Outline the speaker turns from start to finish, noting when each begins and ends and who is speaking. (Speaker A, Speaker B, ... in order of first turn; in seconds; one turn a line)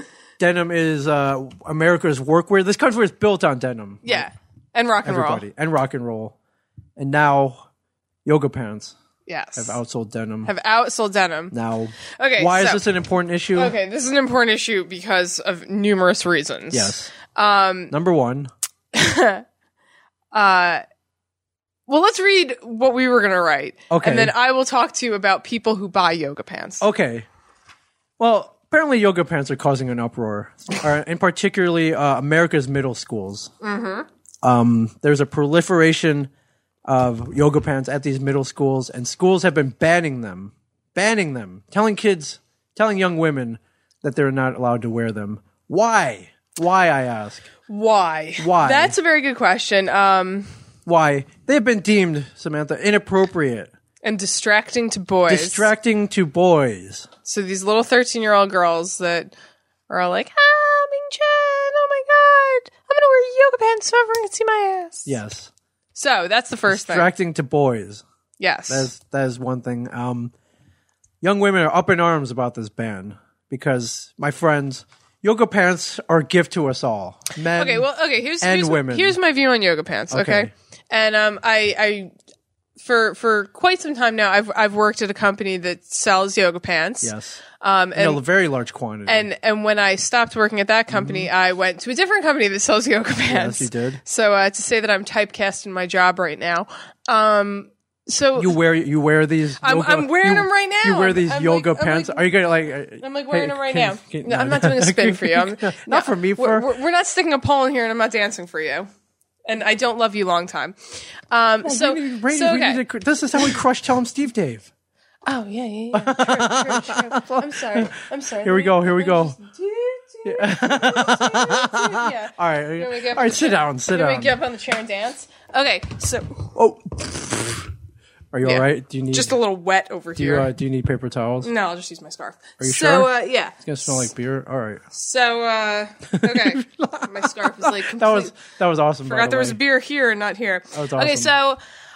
Speaker A: 0.4-4.3
Speaker B: 4.0-5.4
Speaker A: 5.0-6.3
Speaker A: 7.0-7.7
Speaker A: 8.2-8.9
Speaker B: 9.2-9.8
Speaker A: 9.6-10.5
Speaker B: 10.4-11.5
Speaker A: 11.5-13.7
Speaker B: 12.2-12.8
Speaker B: 13.5-17.9
Speaker A: 16.7-17.1
Speaker A: 17.9-18.5
Speaker B: 18.9-19.4
Speaker B: 20.3-20.8
Speaker B: 21.9-26.8
Speaker A: 23.9-24.3
Speaker A: 26.8-27.3
Speaker A: 28.2-33.5
Speaker B: 33.6-34.1
Speaker A: 34.4-36.3
Speaker A: 36.8-47.5
Speaker B: 47.7-50.5
Speaker A: 48.4-49.0
Speaker A: 50.9-53.7
Speaker B: 54.0-55.7
Speaker A: 55.3-57.1
Speaker B: 57.2-59.3
Speaker B: 59.9-65.2
Speaker A: 65.0-65.5
Speaker B: 65.9-67.1
Speaker A: 66.7-68.0
Speaker B: 68.4-68.9
Speaker A: 68.7-70.3
Speaker A: 71.2-77.9
Speaker B: 77.5-82.1
Speaker A: 78.4-79.2
Speaker A: 80.1-80.5
Speaker B: 82.8-88.2
Speaker A: 87.0-87.4
Speaker A: 87.9-89.3
Speaker B: 89.0-98.6
Speaker A: 90.9-91.3
Speaker A: 93.2-94.0
Speaker A: 98.4-106.7
Speaker B: 99.6-102.3
Speaker B: 103.0-108.9
Speaker B: 109.5-110.8
Speaker B: 111.3-112.8
Speaker A: 111.6-114.7
Speaker B: 115.2-126.5
Speaker A: 115.9-117.9
Speaker A: 118.4-119.4
Speaker A: 120.2-124.4
Speaker A: 126.5-127.7
Speaker A: 128.3-129.3
Speaker B: 128.4-130.5
Speaker A: 130.2-131.5
Speaker B: 131.4-134.1
Speaker A: 132.6-134.8
Speaker B: 134.9-138.3
Speaker A: 136.1-139.6
Speaker B: 139.0-141.6
Speaker A: 140.7-141.3